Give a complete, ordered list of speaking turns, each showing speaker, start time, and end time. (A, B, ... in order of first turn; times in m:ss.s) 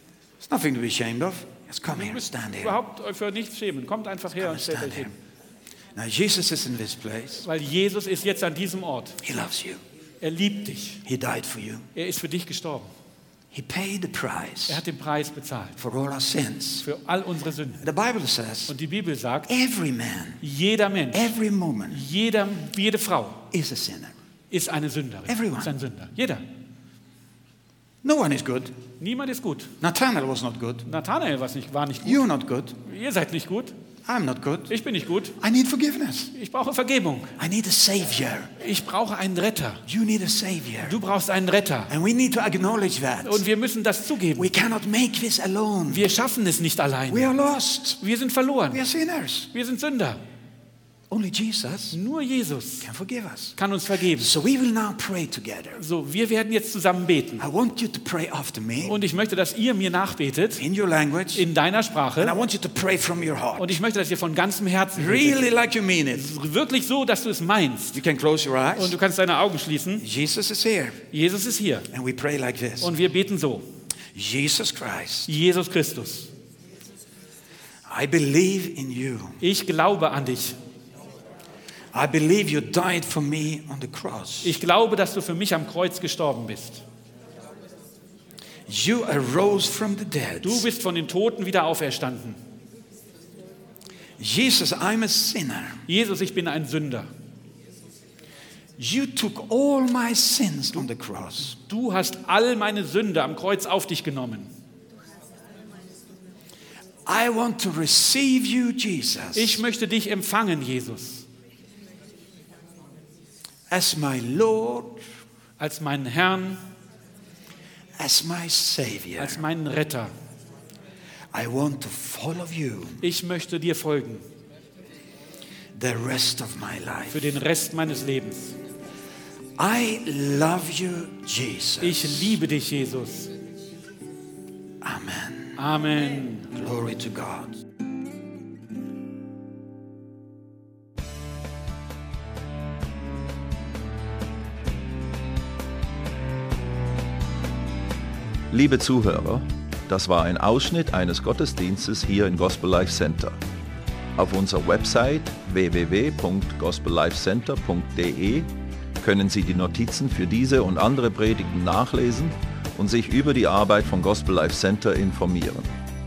0:00.4-0:02.8 A
0:01.9-0:05.1 B
0:04.4-0:05.1 A
0:05.9-0:07.5 A
0:07.4-0:09.2 B
0:09.2-0:09.8 A
0:10.2-0:11.0 B
0:11.0-0:11.9 A
0:11.9-0:12.9 B
0:13.5-0:14.8 A
0:14.7-0:15.8 B
0:15.8-0:16.9 A
0:16.8-0:17.8 B
0:17.8-0:18.7 A
0:18.7-0:19.5 B
0:19.5-0:20.4 A
0:20.4-0:21.3 B
0:21.1-0:22.0 A
0:21.9-0:23.5 B
0:23.5-0:24.1 A
0:24.5-0:26.4 B
0:25.3-0:25.7 A
0:28.0-0:28.7 A
0:29.0-0:29.7 B
0:29.8-0:30.8 A
0:30.9-0:32.2 B
0:32.0-0:32.8 A
0:32.8-0:33.7 B
0:34.0-0:34.7 A
0:34.7-0:35.4 B
0:35.4-0:36.3 A
0:36.3-0:37.3 B
0:37.4-0:38.5 A
0:38.6-0:39.8 B
0:39.9-0:41.0 A
0:40.8-0:41.9 B
0:41.9-0:43.4 A
0:43.2-0:44.5 B
0:44.4-0:46.0 A
0:45.9-0:47.3 B
0:47.1-0:48.0 A
0:48.0-0:48.8 B
0:48.7-0:49.5 A
0:49.5-0:50.2 B
0:51.1-0:52.0 A
0:51.9-0:52.9 B
0:52.8-0:53.6 A
0:53.6-0:54.3 B
0:54.2-0:55.8 A
0:55.8-0:57.4 B
0:57.4-0:59.0 A
0:58.8-1:00.6 B
1:00.6-1:01.4 A
1:01.3-1:02.4 B
1:02.2-1:03.8 A
1:03.6-1:05.4 B
1:05.0-1:06.3 A
1:06.1-1:08.0 B
1:07.9-1:09.0 A
1:08.8-1:10.0 B
1:10.0-1:11.0 A
1:11.1-1:11.9 B
1:11.9-1:12.9 A
1:12.8-1:13.6 B
1:14.1-1:15.3 A
1:15.3-1:16.3 B
1:17.9-1:19.4 A
1:19.4-1:20.6 B
1:21.9-1:24.6 A
1:24.4-1:26.8 B
1:28.7-1:30.6 A
1:30.4-1:32.4 B
1:34.2-1:35.8 A
1:35.9-1:37.1 B
1:38.8-1:41.6 A
1:41.5-1:44.5 B
1:47.0-1:49.6 A
1:49.3-1:51.2 B
1:53.7-1:55.0 A
1:55.6-1:56.6 B
1:58.0-1:59.4 A
1:59.2-2:00.1 B
2:01.3-2:03.0 A
2:03.0-2:04.2 B
2:05.7-2:07.3 A
2:07.1-2:08.6 B
2:09.6-2:12.4 A
2:11.8-2:13.3 B
2:14.8-2:15.6 A
2:15.6-2:16.5 B
2:16.5-2:17.6 A
2:28.5-2:33.4 C
2:34.2-2:38.5 C
2:39.0-2:45.7 C